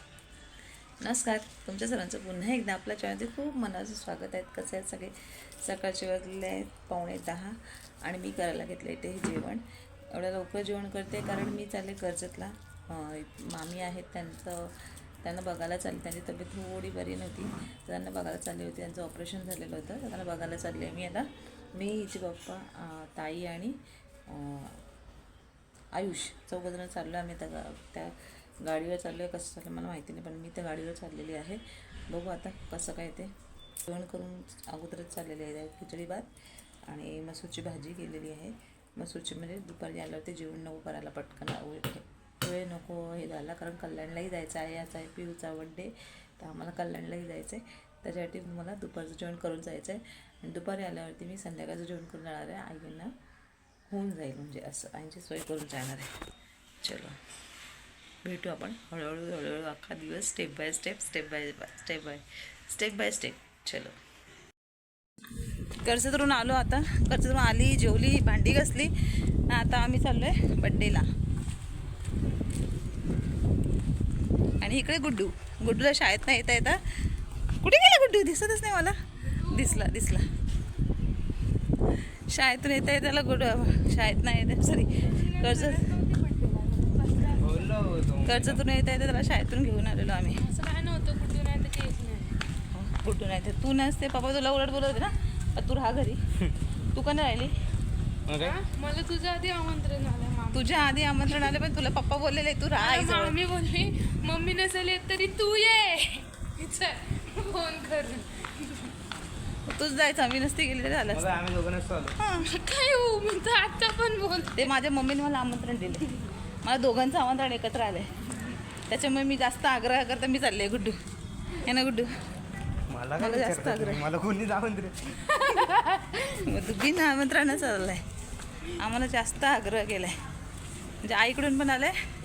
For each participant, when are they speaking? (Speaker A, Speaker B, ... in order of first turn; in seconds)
Speaker A: 1.0-14.7, 15.2-23.7, 24.3-24.8, 25.9-33.3, 33.9-36.3, 36.9-53.1, 53.9-56.1, 56.8-57.1, 58.2-63.9, 65.8-68.9, 69.5-71.0, 74.6-76.8, 77.6-78.9, 79.5-80.2, 82.3-85.8, 88.2-90.4, 92.7-96.2, 96.9-97.5, 100.5-103.4, 109.7-111.3, 112.2-112.5, 114.5-116.1, 116.6-118.1, 118.9-121.0, 121.6-122.1, 123.2-124.1, 126.1-128.0, 128.8-130.1, 131.0-131.9
Speaker B: 79.6-79.8, 85.4-87.6, 90.4-92.3, 98.4-100.7, 102.8-108.5, 112.4-114.7, 125.6-126.0
Speaker C: 87.4-88.6, 98.3-98.6, 111.1-112.1, 122.9-124.9